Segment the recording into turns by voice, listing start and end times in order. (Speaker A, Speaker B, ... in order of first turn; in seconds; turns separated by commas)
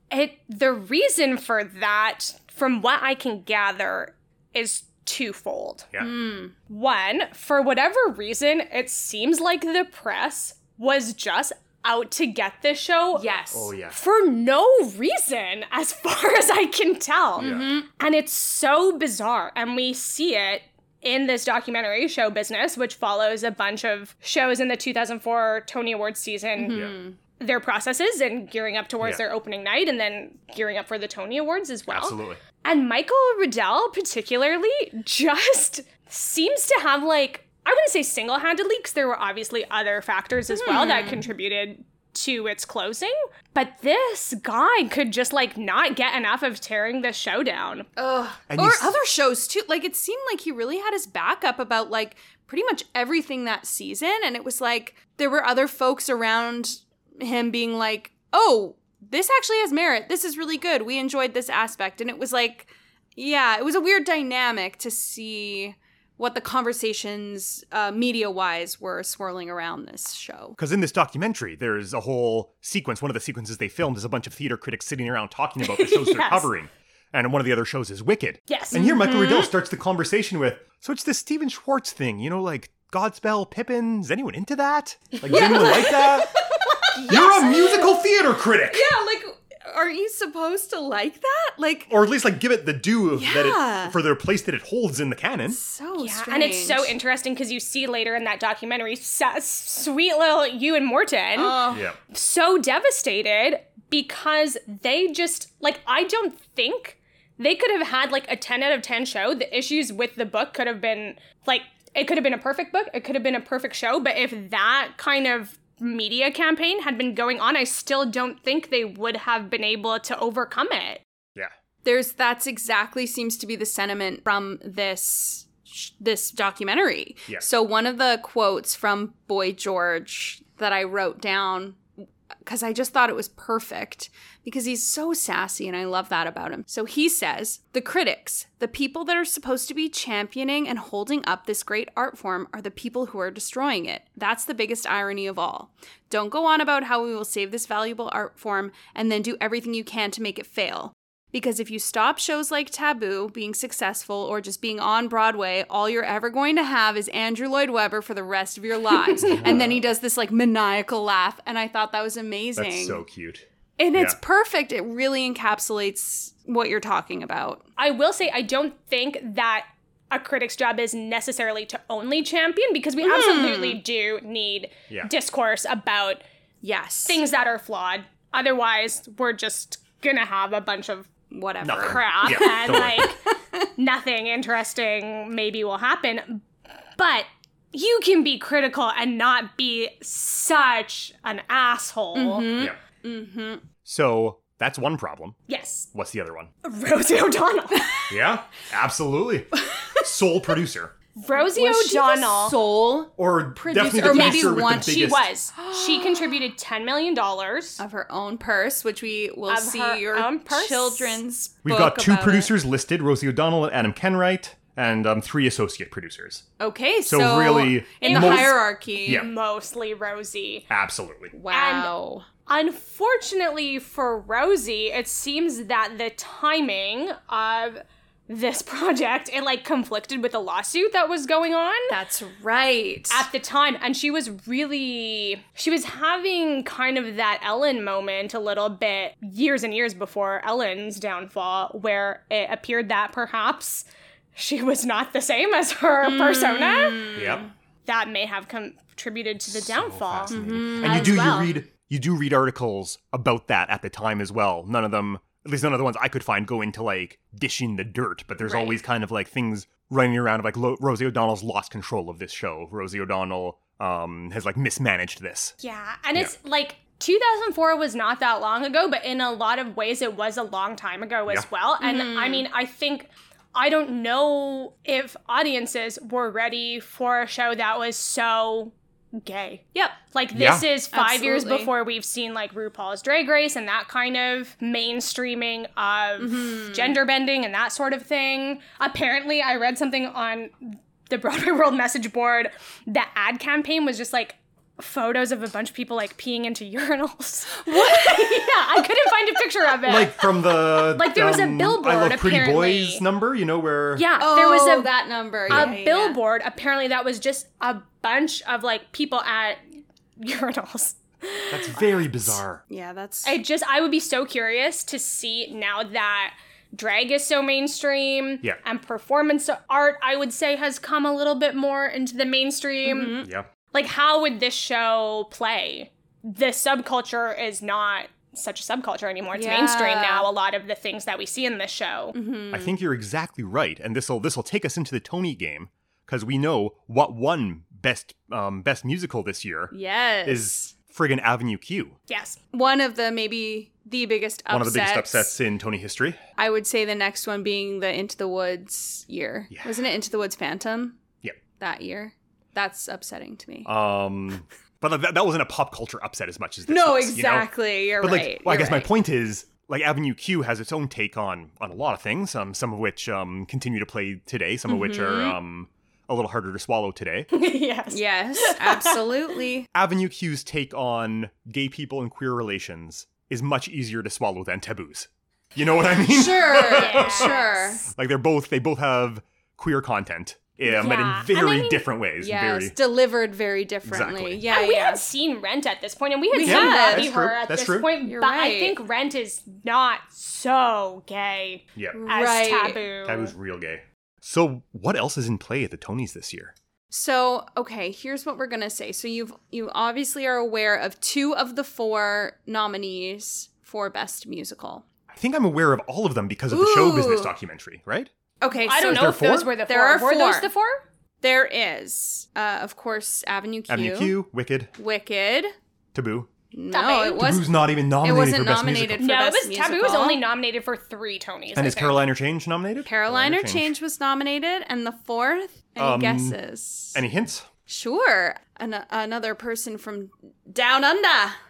Speaker A: 0.1-5.9, Speaker B: 6.0-6.5, Speaker A: 6.7-13.3, Speaker B: 13.1-13.7, Speaker C: 13.5-14.0, Speaker A: 13.9-47.9, Speaker C: 17.4-17.7, Speaker B: 17.4-17.9, Speaker B: 26.6-27.2, Speaker C: 31.9-32.4, Speaker B: 40.5-41.3, Speaker B: 48.0-70.6, Speaker C: 48.5-49.0, Speaker C: 70.6-86.3, Speaker A: 75.6-76.5, Speaker A: 78.5-79.5, Speaker B: 78.8-79.5, Speaker A: 85.2-86.2, Speaker B: 85.3-87.9, Speaker C: 87.0-88.9, Speaker B: 88.6-91.9, Speaker C: 91.9-95.6, Speaker B: 93.1-94.0, Speaker B: 95.5-96.9, Speaker A: 96.0-121.0, Speaker B: 101.3-101.9, Speaker C: 101.7-102.0, Speaker B: 121.8-131.9, Speaker B: 132.4-163.0, Speaker C: 159.2-159.8, Speaker C: 162.6-164.2, Speaker B: 163.8-167.7, Speaker A: 167.8-176.2, Speaker B: 173.0-173.8, Speaker B: 176.6-177.2, Speaker A: 177.1-181.1, Speaker B: 181.3-183.7, Speaker C: 181.6-183.1, Speaker A: 181.7-183.2, Speaker A: 183.8-186.4, Speaker A: 187.0-192.5, Speaker B: 192.2-193.7, Speaker C: 193.8-195.4, Speaker A: 195.5-195.9, Speaker C: 195.9-196.5, Speaker A: 196.6-198.0, Speaker B: 197.8-198.1, Speaker C: 198.1-200.9, Speaker A: 201.2-202.6, Speaker B: 201.3-206.5, Speaker C: 203.2-205.3, Speaker A: 203.9-207.8, Speaker B: 207.8-212.5, Speaker A: 209.5-211.2, Speaker C: 211.6-216.4, Speaker B: 216.6-219.3, Speaker C: 217.1-219.3, Speaker A: 218.0-220.7, Speaker C: 220.7-221.3, Speaker B: 221.3-222.3, Speaker A: 221.5-221.9, Speaker A: 222.5-231.9, Speaker B: 231.9-233.3, Speaker A: 233.1-247.2, Speaker B: 246.0-247.5, Speaker C: 247.2-247.5, Speaker A: 247.9-251.6, Speaker C: 249.5-265.5, Speaker B: 250.3-251.6, Speaker A: 265.6-303.0, Speaker B: 271.8-272.5, Speaker C: 280.3-280.7, Speaker B: 280.9-281.7, Speaker B: 286.2-287.0, Speaker B: 297.7-298.5, Speaker C: 299.8-304.1, Speaker A: 304.0-304.9, Speaker B: 304.2-306.2, Speaker C: 305.5-305.8, Speaker A: 305.5-309.6, Speaker A: 310.2-312.0, Speaker C: 311.5-312.6, Speaker B: 312.7-313.4, Speaker A: 313.2-332.1, Speaker B: 322.9-323.3, Speaker C: 323.2-323.5, Speaker B: 329.4-330.3, Speaker B: 332.1-332.8, Speaker C: 332.5-339.7, Speaker B: 339.7-340.7, Speaker C: 340.3-342.0, Speaker A: 342.1-342.4, Speaker B: 342.5-345.4, Speaker C: 344.5-346.2, Speaker B: 346.4-351.0, Speaker B: 351.6-353.7, Speaker C: 353.6-367.3, Speaker B: 356.7-358.9, Speaker B: 364.7-365.4, Speaker A: 367.3-369.1, Speaker B: 367.9-369.7, Speaker C: 369.7-382.8, Speaker B: 376.0-377.9, Speaker A: 376.7-377.8, Speaker A: 380.7-381.8, Speaker B: 382.2-385.0, Speaker C: 383.9-384.4, Speaker A: 384.5-393.3, Speaker B: 386.3-387.1, Speaker C: 386.4-387.9, Speaker B: 388.1-388.8, Speaker C: 391.8-392.1, Speaker B: 391.9-392.9, Speaker C: 393.1-396.5, Speaker B: 396.9-404.9, Speaker C: 405.1-408.1, Speaker B: 406.5-407.3, Speaker B: 408.4-410.5, Speaker A: 408.6-410.8, Speaker C: 408.9-409.5, Speaker B: 411.2-414.2, Speaker C: 413.7-414.7, Speaker B: 414.8-415.5, Speaker C: 415.9-416.3, Speaker B: 416.5-420.2, Speaker A: 416.7-417.3, Speaker C: 417.1-419.1, Speaker A: 419.0-422.0, Speaker C: 421.6-423.7, Speaker B: 422.8-427.0, Speaker C: 425.8-426.4, Speaker C: 426.9-427.5, Speaker B: 427.7-431.4